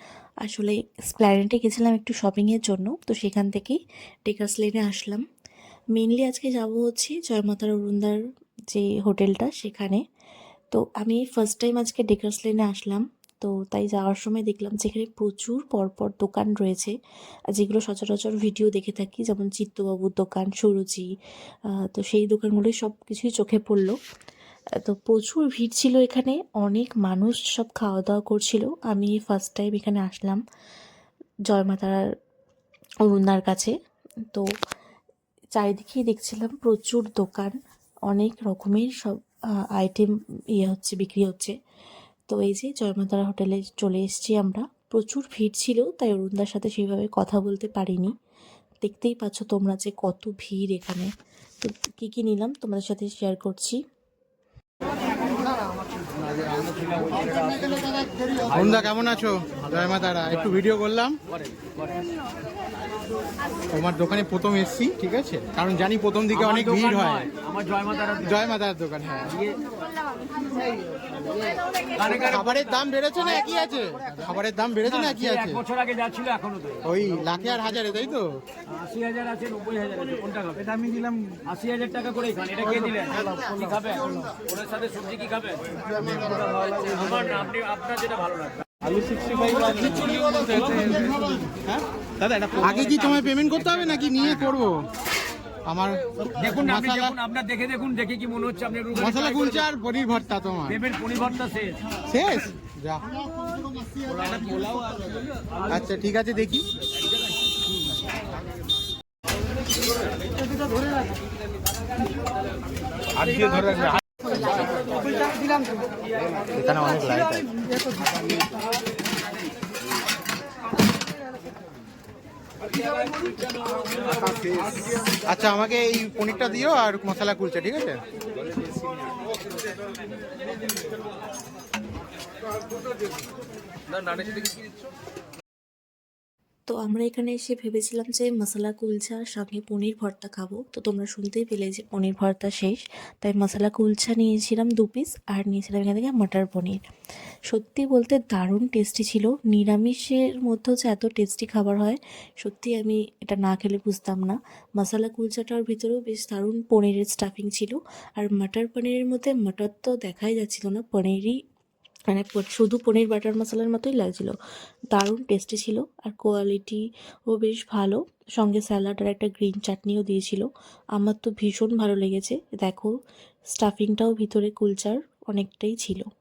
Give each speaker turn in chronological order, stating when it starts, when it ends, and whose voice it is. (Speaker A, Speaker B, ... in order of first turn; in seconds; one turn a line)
Speaker A: 0.4-5.2
Speaker A: 6.0-8.2
Speaker A: 8.7-10.0
Speaker A: 10.7-16.9
Speaker A: 17.5-21.1
Speaker A: 21.7-24.0
Speaker A: 24.8-30.4
Speaker A: 31.5-32.0
Speaker A: 33.1-33.7
Speaker A: 35.6-37.6
Speaker A: 38.1-39.2
Speaker A: 39.8-41.5
Speaker A: 42.3-48.1
Speaker A: 48.8-51.1
Speaker A: 51.6-53.8
Speaker B: 58.5-61.2
Speaker B: 63.7-67.3
Speaker C: 67.8-68.1
Speaker B: 68.1-69.4
Speaker B: 72.0-75.6
Speaker C: 75.9-76.6
Speaker B: 76.8-78.4
Speaker C: 78.9-80.7
Speaker C: 81.5-84.2
Speaker C: 84.8-85.6
Speaker B: 85.8-87.2
Speaker C: 87.1-88.2
Speaker B: 89.5-91.1
Speaker B: 92.5-94.8
Speaker B: 95.7-97.2
Speaker C: 97.3-98.9
Speaker B: 98.9-100.9
Speaker C: 101.0-101.7
Speaker B: 102.1-103.0
Speaker B: 105.7-106.7
Speaker B: 113.2-114.0
Speaker B: 116.5-117.5
Speaker B: 125.2-128.0
Speaker A: 136.7-146.8
Speaker A: 147.5-161.4
Speaker A: 162.1-164.4
Speaker A: 164.9-172.9
Speaker A: 173.6-176.1